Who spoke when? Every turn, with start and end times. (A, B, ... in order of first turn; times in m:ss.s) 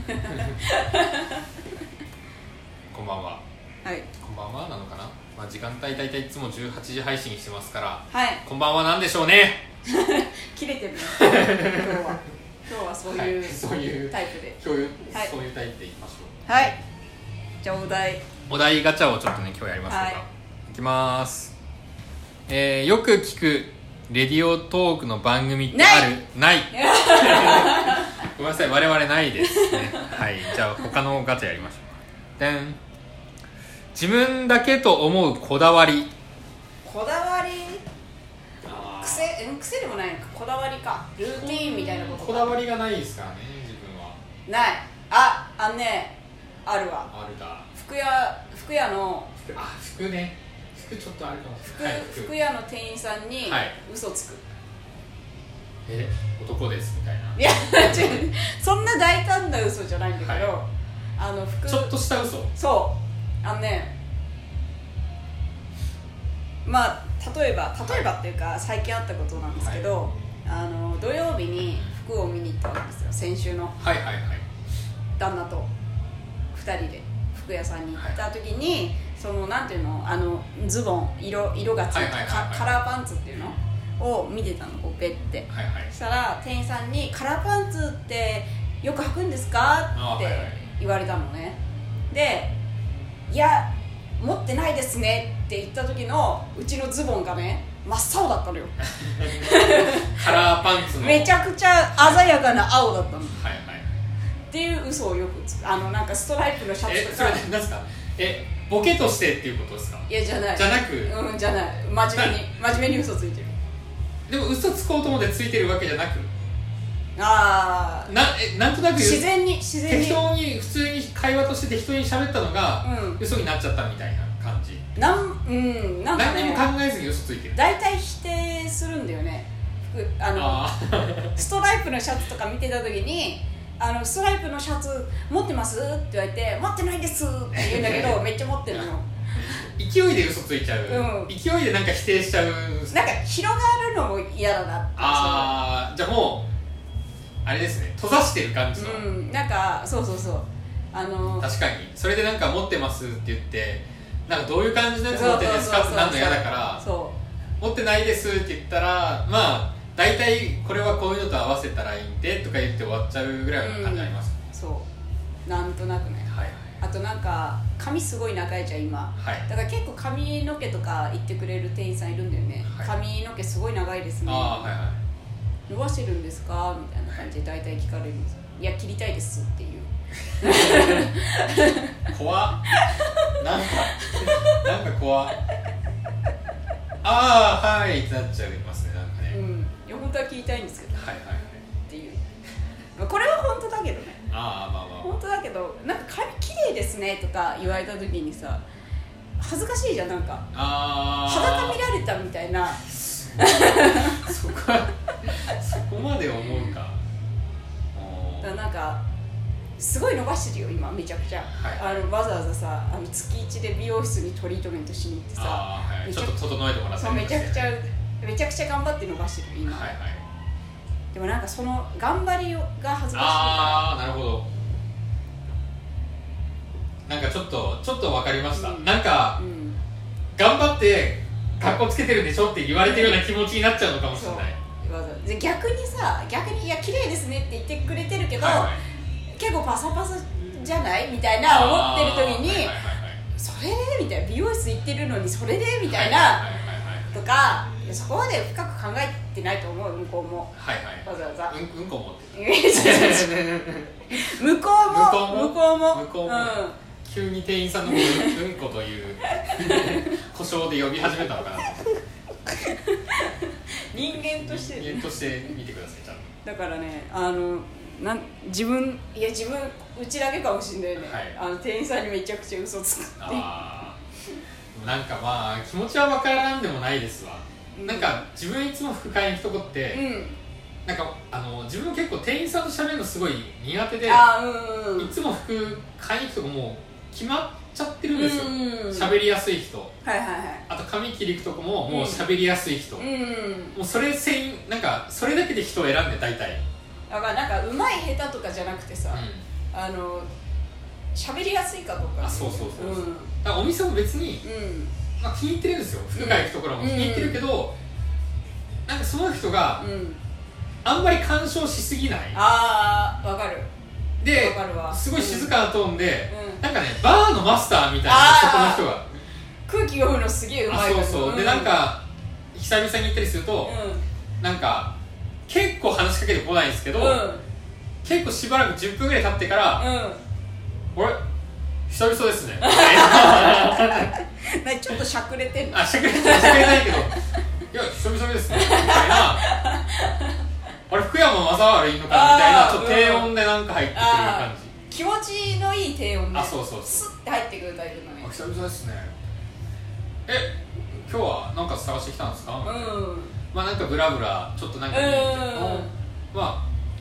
0:00.1-0:01.3 A
0:00.3-0:00.6 B
0:02.9-0:03.4 B
0:04.2-0:09.6 B
0:08.1-0:08.4 A
0:09.8-0:14.6 A
0:11.2-0:12.1 B
0:13.0-0:16.7 B
0:16.5-0:16.8 A
0:17.6-0:18.2 A
0:18.5-0:21.5 B
0:19.9-0:20.2 A
0:22.5-0:32.8 B
0:25.7-0:26.2 A
0:26.7-0:28.2 A
0:29.4-0:30.2 A
0:33.9-0:36.1 B
0:36.8-0:37.8 A
0:38.6-0:39.3 B
0:39.0-0:42.6 A
0:41.3-0:44.2 B
0:44.5-0:47.1 A
0:47.1-0:47.7 B
0:47.7-0:49.5 A
0:49.5-0:52.3 B
0:51.7-0:54.4 A
0:53.4-0:53.8 B
0:55.8-0:58.2 B
0:57.4-1:01.9 A
1:00.2-1:00.5 B
1:01.7-1:02.5 B
1:02.5-1:03.9 A
1:06.6-1:13.8 A
1:07.8-1:08.1 B
1:09.6-1:09.8 B
1:13.8-1:14.4 B
1:15.2-1:15.7 A
1:16.5-1:31.6 A
1:21.9-1:22.8 B
1:25.5-1:25.9 B
1:29.9-1:30.6 B
1:32.1-1:32.5 A
1:33.3-1:43.4 A
1:39.0-1:41.4 B
1:42.0-1:42.4 B
1:43.3-1:43.8 B
1:44.5-1:47.4 A
1:46.8-1:51.1 B
1:50.1-1:53.5 A
1:54.3-1:56.3 B
1:57.2-1:58.1 A
1:58.1-1:59.3 B
1:58.9-2:00.3 A
1:59.8-2:04.8 B
2:02.8-2:03.2 A
2:05.0-2:06.7 A
2:06.1-2:07.6 B
2:07.5-2:10.6 A
2:10.3-2:11.4 B
2:11.3-2:19.1 A
2:17.5-2:18.2 B
2:19.4-2:23.1 B
2:20.9-2:21.3 A
2:22.9-2:25.6 A
2:25.0-2:26.5 B
2:27.4-2:29.1 B
2:28.8-2:31.5 A
2:31.4-2:36.8 B
2:35.1-2:37.2 A
2:37.6-2:44.3 B
2:43.6-2:44.9 A
2:45.4-2:54.7 A
2:46.3-2:46.8 B
2:49.2-2:49.5 B
2:52.6-2:52.9 B
2:54.2-2:55.0 B
2:55.7-3:02.1 A
3:00.4-3:01.1 B
3:02.1-3:02.8 B
3:02.8-3:04.6 A
3:03.4-3:05.4 B
3:07.0-3:09.4 B
3:09.3-3:11.1 A
3:11.0-3:11.6 B
3:11.8-3:12.2 A
3:13.0-3:14.2 A
3:14.3-3:15.2 B
3:15.0-3:18.6 A
3:19.4-3:20.5 A
3:20.5-3:21.8 B
3:21.2-3:24.2 A
3:22.8-3:27.0 B
3:27.9-3:28.6 B
3:28.4-3:29.0 A
3:29.8-3:36.3 A
3:31.5-3:32.0 B
3:35.4-3:37.7 B
3:37.0-3:39.9 A
3:39.6-3:40.2 B
3:41.1-3:43.8 A
3:43.1-3:44.5 B
3:47.0-3:49.4 B
3:48.5-3:49.8 A
3:50.3-3:54.6 B
3:52.8-3:53.2 A
3:54.1-3:58.8 A
3:58.4-3:58.8 B
3:59.4-4:02.8 A
4:01.4-4:03.2 B
4:03.3-4:06.4 A
4:05.8-4:07.2 B
4:07.1-4:10.5 A
4:10.5-4:14.2 B
4:11.0-4:11.5 A
4:12.3-4:13.5 A
4:14.1-4:16.8 A
4:14.8-4:21.9 B
4:17.9-4:18.4 A
4:19.3-4:20.2 A
4:22.5-4:25.2 A
4:23.9-4:26.3 B
4:26.4-4:33.5 A
4:31.0-4:31.4 B
4:33.2-4:34.0 B
4:34.7-4:40.0 B
4:37.7-4:38.2 A
4:39.9-4:40.4 A
4:40.8-4:44.3 B
4:44.0-4:45.1 A
4:45.0-4:49.9 B
4:48.1-4:49.1 A
4:50.0-4:50.6 A
4:50.7-4:53.1 B
4:51.9-4:52.2 A
4:53.0-4:53.8 A
4:53.7-4:56.6 B
4:57.1-5:00.3 A
4:59.1-4:59.4 B
5:01.1-5:03.3 A
5:02.2-5:04.4 B
5:04.4-5:04.9 A
5:05.2-5:07.8 B
5:06.1-5:07.4 A
5:08.8-5:09.9 B
5:09.8-5:10.2 A
5:10.8-5:12.4 B
5:12.3-5:13.7 A
5:14.2-5:19.1 B
5:14.3-5:15.5 A
5:16.3-5:16.6 A
5:18.0-5:18.9 A
5:19.6-5:21.8 A
5:20.7-5:23.8 B
5:23.6-5:24.0 A
5:24.4-5:24.9 B
5:25.5-5:27.2 B
5:27.0-5:27.4 A
5:28.0-5:29.8 B
5:29.8-5:30.2 A
5:30.9-5:31.2 B
5:31.9-5:34.1 B
5:32.6-5:37.2 A
5:35.7-5:37.2 B
5:37.7-5:39.5 B
5:38.5-5:40.3 A
5:40.9-5:44.7 B
5:42.1-5:43.3 A
5:43.9-5:48.3 A
5:46.3-5:47.0 B
5:48.2-5:49.2 B
5:50.3-5:53.0 B
5:52.6-5:53.4 A
5:53.5-5:56.6 B
5:54.9-5:55.9 A